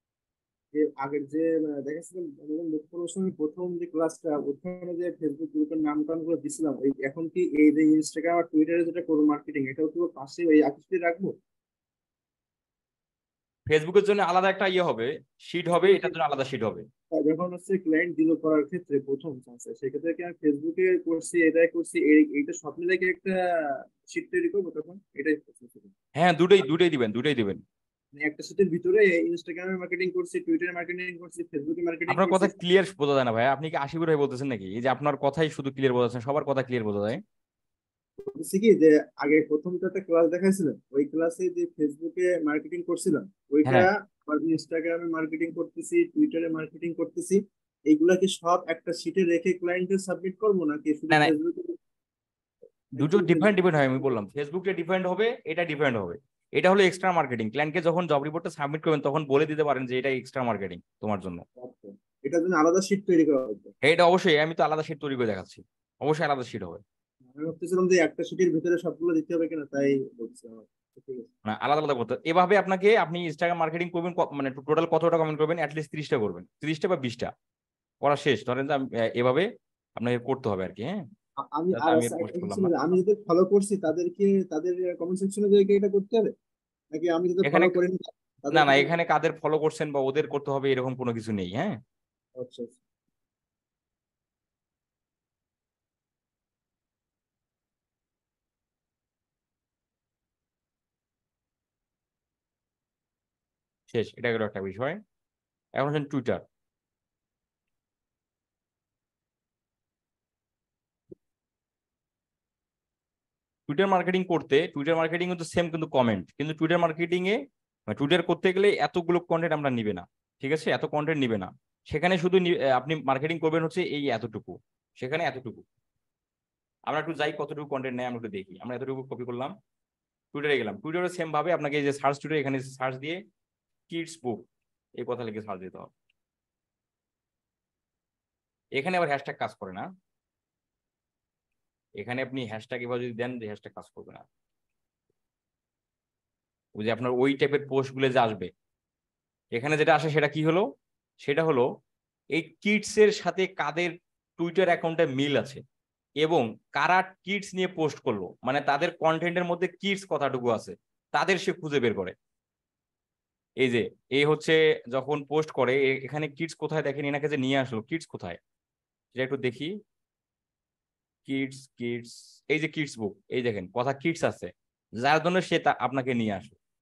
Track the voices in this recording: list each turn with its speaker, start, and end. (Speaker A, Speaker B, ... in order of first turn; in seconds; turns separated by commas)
Speaker A: 0.7-11.3, Speaker B: 13.7-16.8, Speaker A: 15.8-16.1, Speaker A: 17.1-25.9, Speaker B: 26.2-27.6, Speaker A: 28.2-32.5, Speaker B: 32.1-37.2, Speaker A: 38.2-51.8, Speaker A: 53.0-54.1, Speaker B: 53.0-61.4, Speaker A: 61.6-63.7, Speaker B: 63.8-66.8, Speaker A: 67.3-71.3, Speaker B: 71.5-77.3, Speaker B: 78.0-81.0, Speaker A: 81.5-86.3, Speaker B: 81.7-82.7, Speaker A: 86.9-88.9, Speaker B: 87.4-87.8, Speaker B: 88.5-91.7, Speaker A: 92.4-92.8, Speaker B: 103.9-105.0, Speaker B: 105.8-106.4, Speaker B: 113.7-117.4, Speaker B: 117.9-125.6, Speaker B: 126.9-129.5, Speaker B: 130.3-133.2, Speaker B: 133.9-134.4, Speaker B: 135.0-135.9, Speaker B: 138.7-139.9, Speaker B: 142.0-144.2, Speaker B: 146.8-148.5, Speaker B: 149.5-150.6, Speaker B: 151.2-151.7, Speaker B: 152.3-155.6, Speaker B: 156.2-162.1, Speaker B: 163.6-168.4, Speaker B: 169.1-169.7, Speaker B: 171.2-176.6